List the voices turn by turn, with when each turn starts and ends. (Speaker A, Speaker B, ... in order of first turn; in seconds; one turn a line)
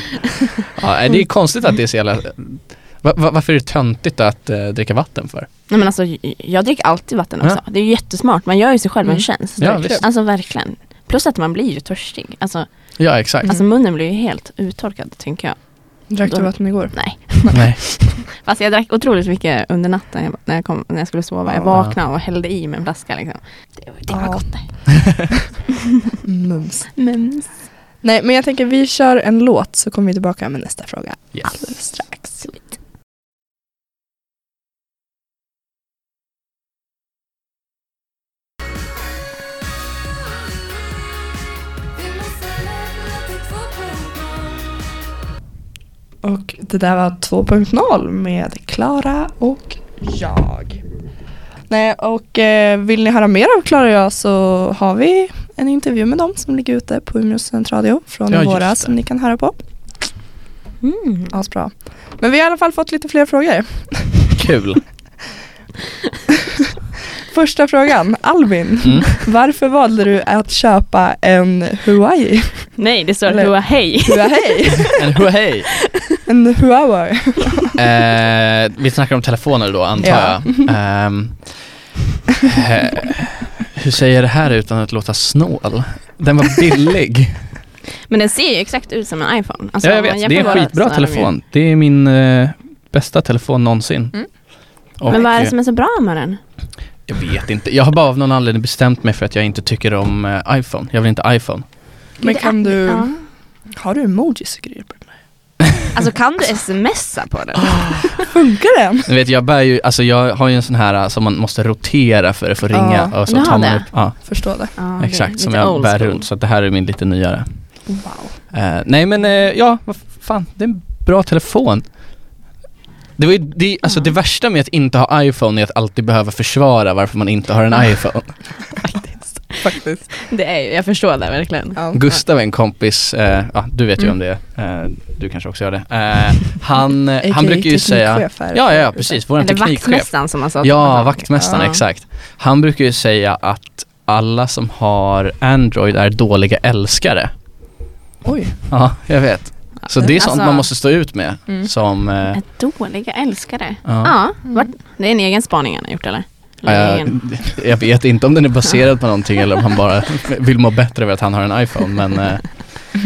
Speaker A: 0.8-5.5
Speaker B: 5.7-25.0
Speaker C: 9.0-10.0
Speaker A: 9.6-10.0
Speaker A: 13.0-13.5
Speaker C: 16.1-17.6
Speaker A: 17.5-17.8
Speaker A: 21.7-21.9
Speaker C: 24.1-25.2
Speaker C: 26.2-26.9
Speaker B: 27.0-27.5
Speaker C: 28.0-32.4
Speaker A: 31.3-31.6
Speaker B: 32.2-32.7
Speaker C: 46.2-50.8
Speaker C: 51.7-59.5
Speaker A: 58.3-58.9
Speaker B: 60.8-61.4
Speaker C: 61.3-64.3
Speaker A: 64.3-64.8
Speaker C: 67.3-75.0
Speaker A: 68.8-69.1
Speaker B: 72.8-75.0
Speaker A: 74.9-75.7
Speaker C: 76.3-77.7
Speaker A: 77.7-81.8
Speaker C: 80.0-80.7
Speaker A: 82.4-87.6
Speaker B: 88.1-91.3
Speaker A: 89.8-95.5
Speaker B: 95.1-96.4
Speaker A: 97.0-101.7
Speaker C: 102.2-103.2
Speaker B: 102.2-103.2
Speaker C: 103.7-105.2
Speaker B: 105.9-108.3
Speaker C: 108.3-109.1
Speaker A: 109.1-117.9
Speaker C: 112.7-113.6
Speaker B: 113.3-116.3
Speaker C: 114.2-114.7
Speaker A: 118.5-122.0
Speaker A: 123.2-128.6
Speaker B: 128.6-132.2
Speaker C: 129.1-130.1
Speaker C: 131.8-132.0
Speaker A: 131.9-147.3
Speaker C: 137.2-139.2
Speaker B: 139.4-141.8
Speaker C: 141.4-141.6
Speaker C: 148.2-148.6
Speaker A: 148.7-152.4
Speaker B: 149.8-150.7
Speaker B: 152.3-157.4
Speaker A: 153.8-154.2
Speaker A: 156.6-162.7